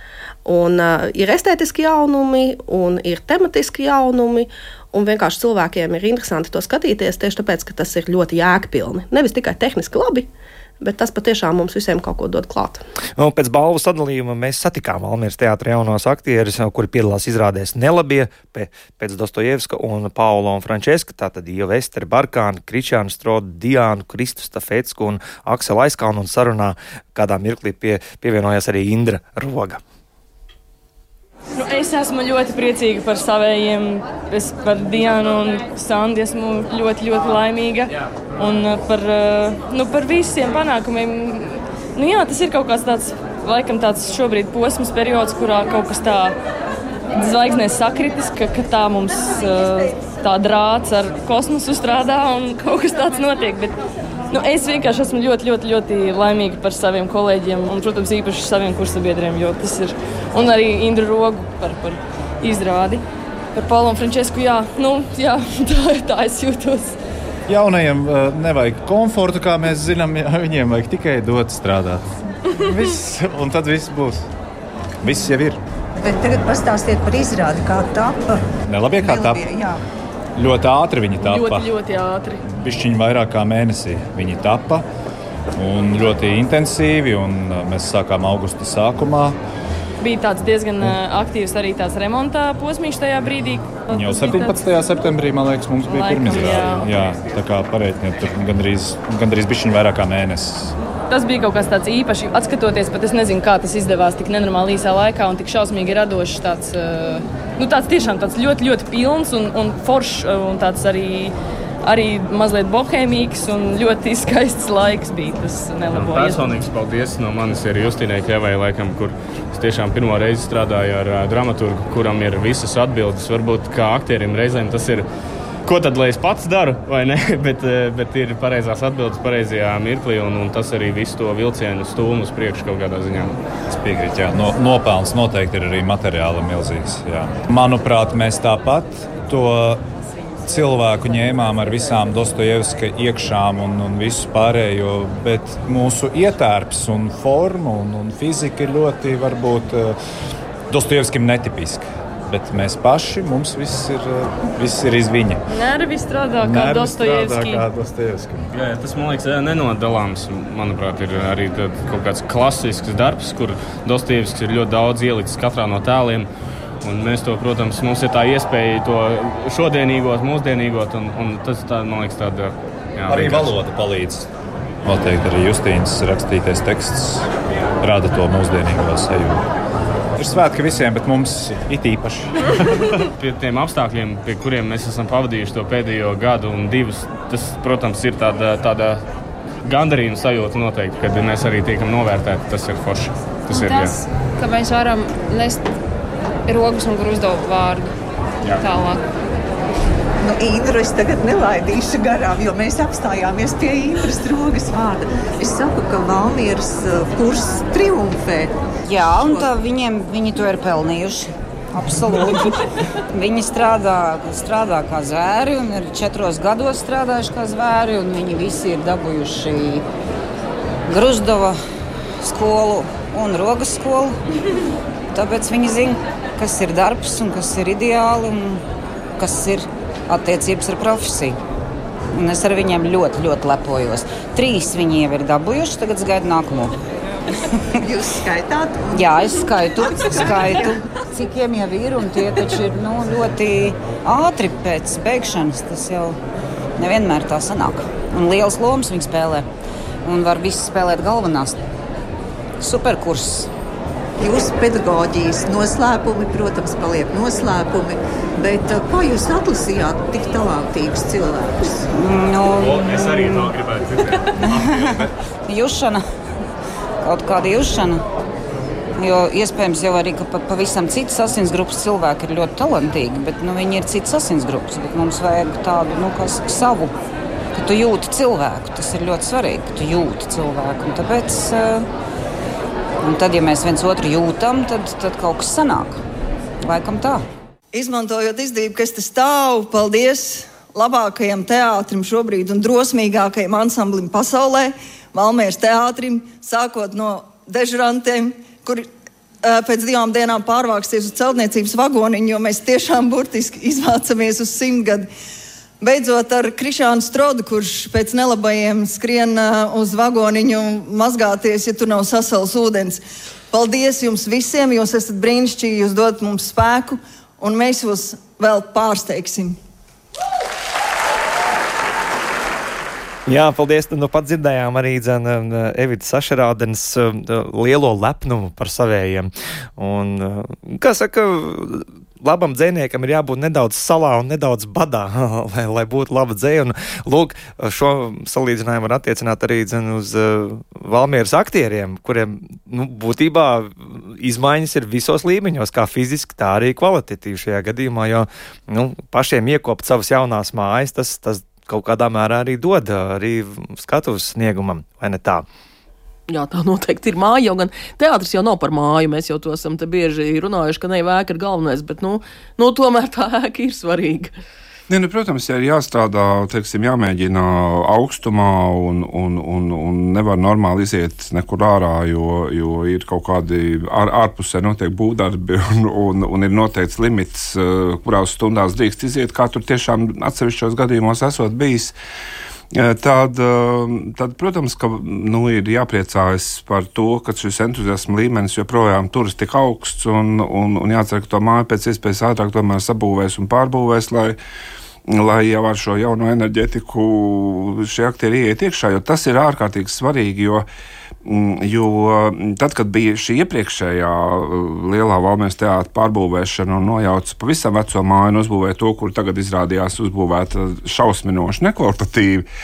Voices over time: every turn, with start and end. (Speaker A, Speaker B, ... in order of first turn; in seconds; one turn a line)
Speaker A: 0.4-10.3
Speaker A: 10.8-12.8
Speaker B: 13.2-29.8
Speaker C: 31.6-46.4
Speaker C: 47.1-53.8
Speaker C: 54.3-67.0
Speaker D: 67.5-72.1
Speaker D: 72.6-74.2
Speaker D: 75.0-75.6
Speaker E: 76.0-78.5
Speaker D: 78.7-79.4
Speaker E: 79.0-79.8
Speaker D: 80.3-81.7
Speaker C: 81.2-82.4
Speaker D: 82.5-84.8
Speaker D: 85.5-89.3
Speaker C: 90.0-94.7
Speaker D: 93.9-100.7
Speaker C: 95.8-96.9
Speaker C: 101.1-116.6
Speaker F: 115.9-125.1
Speaker F: 125.6-133.4
Speaker D: 133.7-139.8
Speaker D: 140.5-149.9
Speaker D: 150.7-155.4
Speaker C: 155.5-157.7
Speaker D: 156.4-158.5
Speaker F: 158.5-166.3
Speaker F: 166.8-173.5
Speaker D: 173.1-174.3
Speaker D: 174.8-177.3
Speaker D: 177.8-179.4
Speaker D: 180.2-182.3
Speaker F: 183.2-189.0
Speaker F: 189.6-194.0
Speaker G: 193.5-195.7
Speaker G: 196.5-197.9
Speaker G: 198.6-199.0
Speaker E: 200.2-209.5
Speaker H: 208.8-212.5
Speaker H: 213.1-219.8
Speaker H: 220.9-221.6
Speaker H: 222.2-224.2
Speaker H: 225.1-228.6
Speaker H: 229.2-231.4
Speaker H: 232.1-236.7
Speaker E: 237.8-240.8
Speaker H: 238.9-246.2
Speaker H: 246.8-249.4
Speaker H: 250.0-251.6
Speaker H: 252.6-253.5
Speaker E: 254.2-261.8
Speaker H: 261.9-263.7
Speaker H: 264.5-266.0
Speaker H: 267.0-268.0
Speaker H: 268.9-276.9
Speaker H: 277.5-281.9
Speaker H: 283.0-286.0
Speaker H: 286.6-287.2
Speaker I: 287.7-298.9
Speaker I: 299.4-305.1
Speaker I: 305.8-319.6
Speaker B: 323.2-355.4
Speaker J: 356.3-364.3
Speaker K: 364.9-381.9
Speaker K: 382.7-394.4
Speaker K: 395.1-400.6
Speaker K: 401.2-412.4